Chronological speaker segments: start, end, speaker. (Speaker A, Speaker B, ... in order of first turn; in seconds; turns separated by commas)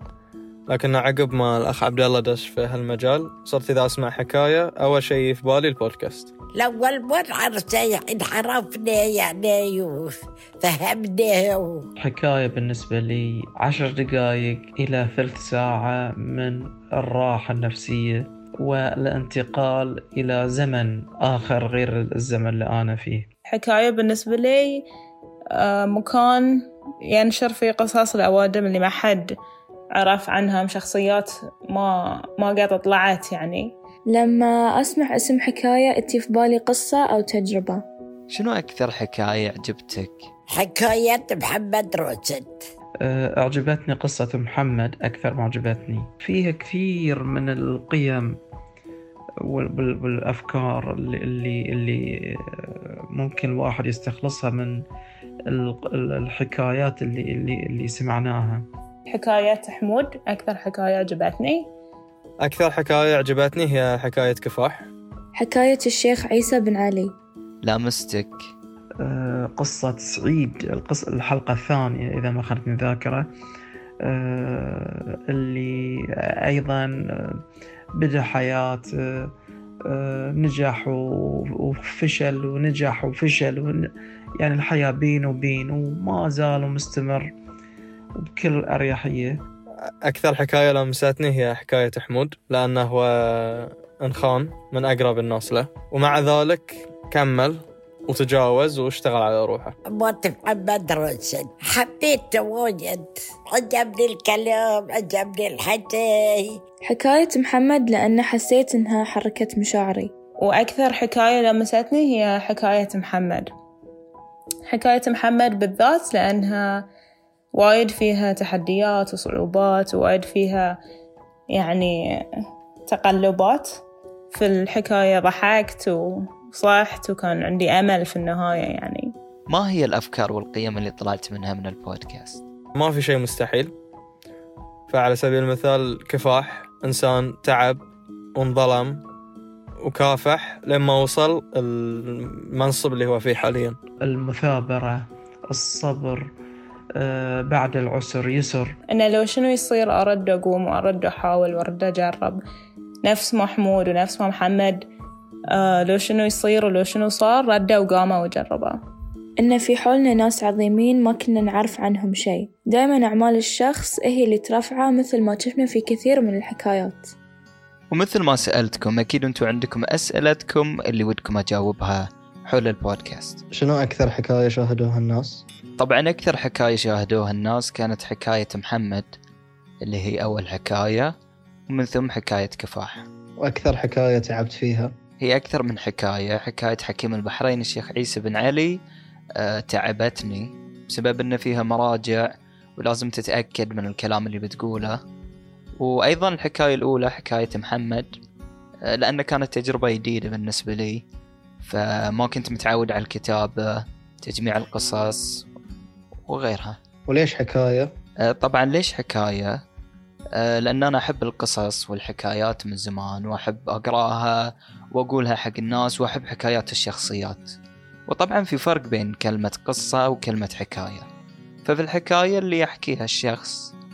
Speaker A: 0.7-6.3, Speaker B: 6.5-11.8, Speaker C: 12.0-23.3, Speaker D: 23.5-24.8, Speaker D: 25.5-29.3, Speaker D: 30.0-33.7, Speaker E: 34.1-37.8, Speaker F: 38.3-40.1, Speaker B: 40.5-42.6, Speaker C: 43.0-48.3, Speaker C: 49.5-54.8, Speaker C: 55.5-58.6, Speaker D: 59.1-61.7, Speaker A: 62.4-64.9, Speaker E: 65.3-67.1, Speaker F: 67.6-68.3, Speaker C: 69.0-73.3, Speaker C: 74.0-77.4, Speaker C: 77.9-79.3, Speaker C: 79.8-87.3, Speaker C: 88.2-89.4, Speaker A: 90.0-99.7, Speaker B: 99.9-106.6, Speaker E: 106.9-110.1, Speaker D: 110.4-113.5, Speaker D: 114.7-116.8, Speaker D: 117.5-120.7, Speaker D: 121.5-122.2, Speaker D: 122.9-123.7, Speaker D: 124.3-129.1, Speaker F: 129.5-132.4, Speaker A: 132.8-133.7, Speaker A: 134.9-137.8, Speaker A: 138.3-139.0, Speaker A: 139.8-143.8, Speaker C: 144.0-146.3, Speaker C: 147.0-148.7, Speaker D: 148.9-152.4, Speaker D: 153.0-154.8, Speaker D: 155.5-158.8, Speaker E: 159.4-167.1, Speaker F: 167.9-173.4, Speaker G: 173.5-175.4, Speaker F: 175.8-179.1, Speaker F: 179.8-181.1, Speaker F: 181.7-183.0, Speaker G: 183.4-184.9, Speaker F: 185.2-188.8, Speaker F: 189.4-195.0, Speaker F: 195.8-198.1, Speaker F: 198.9-201.0, Speaker F: 201.6-205.4, Speaker F: 206.3-206.8, Speaker G: 207.1-207.9, Speaker F: 208.2-209.5, Speaker F: 210.3-214.4, Speaker F: 214.9-217.5, Speaker F: 218.1-221.1, Speaker F: 221.6-223.7